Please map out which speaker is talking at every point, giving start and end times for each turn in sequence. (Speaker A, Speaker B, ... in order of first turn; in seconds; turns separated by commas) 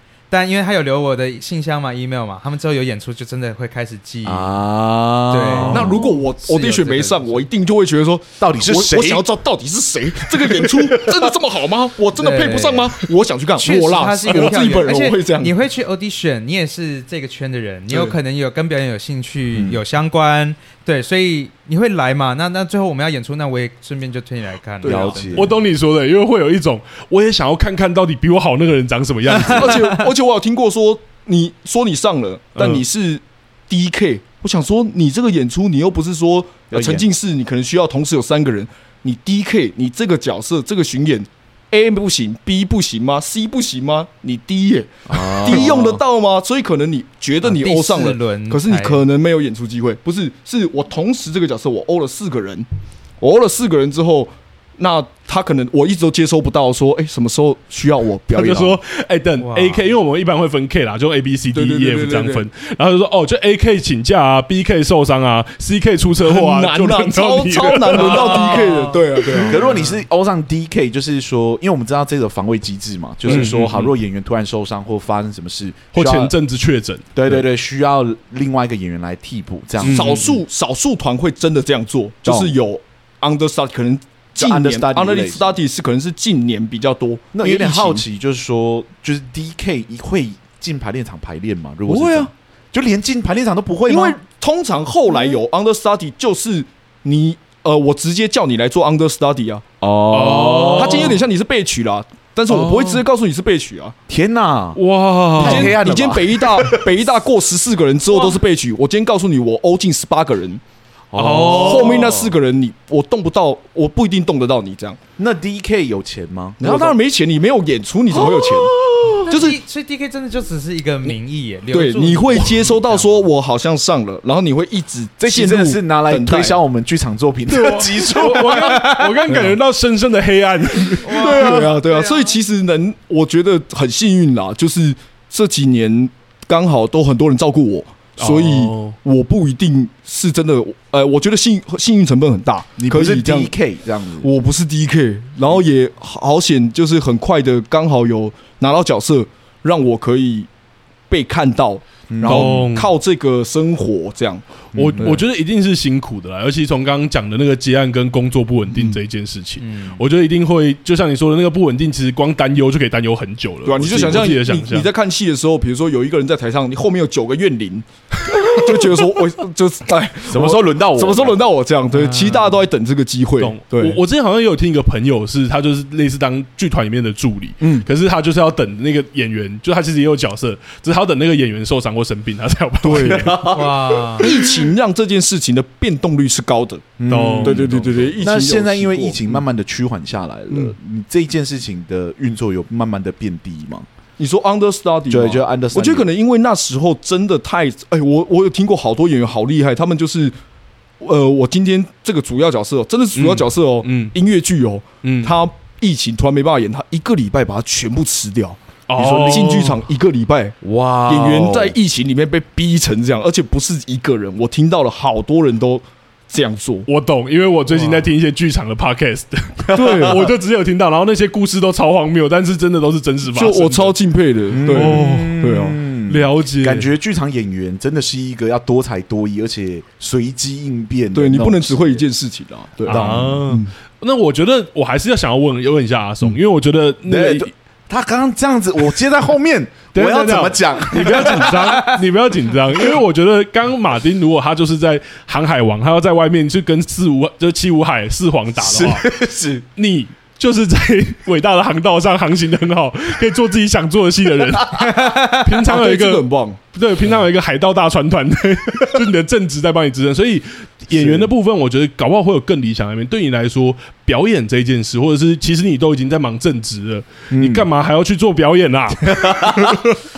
Speaker A: 0.3-4.6, Speaker B: 4.2-6.1, Speaker A: 5.3-7.5, Speaker C: 5.7-15.5, Speaker B: 8.4-9.3, Speaker B: 10.4-11.3, Speaker A: 12.2-12.9, Speaker A: 13.6-25.5, Speaker C: 17.9-18.1, Speaker B: 19.5-19.8, Speaker C: 24.8-25.3, Speaker B: 24.8-25.5, Speaker D: 25.4-30.0, Speaker C: 29.4-52.7, Speaker D: 32.6-32.8, Speaker B: 36.7-37.1, Speaker B: 45.1-46.0, Speaker A: 47.4-49.0, Speaker C: 53.2-58.8, Speaker D: 58.3-68.7, Speaker A: 59.4-59.9, Speaker C: 61.5-62.5, Speaker C: 66.2-69.6, Speaker A: 67.9-70.0, Speaker B: 69.5-76.3, Speaker D: 73.2-73.9, Speaker C: 73.3-73.5, Speaker D: 75.9-77.4, Speaker B: 77.2-80.4, Speaker D: 79.8-80.3, Speaker C: 79.8-88.0, Speaker B: 82.2-82.6, Speaker B: 84.4-85.6, Speaker B: 87.3-94.2, Speaker C: 91.9-92.3, Speaker C: 93.9-99.6, Speaker B: 99.8-101.2, Speaker D: 100.1-101.2, Speaker C: 100.8-104.0, Speaker D: 102.5-103.0, Speaker B: 104.1-104.8, Speaker D: 104.8-105.8, Speaker B: 105.4-107.1, Speaker C: 105.4-110.6, Speaker B: 111.1-112.3, Speaker D: 111.1-112.2, Speaker C: 111.4-115.0, Speaker B: 115.2-117.0, Speaker C: 116.6-119.6, Speaker B: 118.2-118.7, Speaker A: 119.3-123.2, Speaker C: 121.7-126.6, Speaker B: 125.2-128.9, Speaker D: 127.5-131.6, Speaker A: 128.4-129.2, Speaker C: 129.3-129.6, Speaker A: 131.0-132.4, Speaker C: 131.1-143.5, Speaker D: 138.2-139.0, Speaker B: 142.8-144.3, Speaker C: 144.2-150.5, Speaker C: 151.1-154.5, Speaker B: 152.1-152.6, Speaker D: 152.2-152.9, Speaker B: 154.7-155.2, Speaker D: 154.8-164.9, Speaker A: 159.6-160.0, Speaker C: 163.7-174.0, Speaker B: 170.3-171.4, Speaker D: 171.9-172.6, Speaker D: 173.4-183.4, Speaker C: 177.6-177.9, Speaker C: 182.8-183.4, Speaker B: 183.0-184.7, Speaker A: 183.5-184.3, Speaker C: 184.2-189.4, Speaker B: 187.0-193.9, Speaker D: 187.1-188.1, Speaker C: 190.5-190.8, Speaker C: 194.2-200.4, Speaker B: 195.1-196.1, Speaker C: 201.0-210.6, Speaker D: 203.2-204.2, Speaker D: 205.0-205.4, Speaker D: 208.9-209.8, Speaker B: 210.6-211.8, Speaker C: 211.1-216.9, Speaker D: 216.9-223.9, Speaker B: 219.7-220.3, Speaker C: 219.7-220.2, Speaker C: 223.3-225.8, Speaker B: 224.5-232.0, Speaker D: 224.7-225.4, Speaker D: 226.1-226.9, Speaker C: 231.1-233.7, Speaker B: 232.8-233.4, Speaker D: 232.8-237.5, Speaker B: 237.1-242.0, Speaker D: 239.9-249.1, Speaker B: 248.6-249.7, Speaker D: 249.8-270.0, Speaker A: 254.8-255.4, Speaker C: 255.6-256.6, Speaker C: 261.0-261.3, Speaker B: 267.3-267.7, Speaker B: 269.1-269.9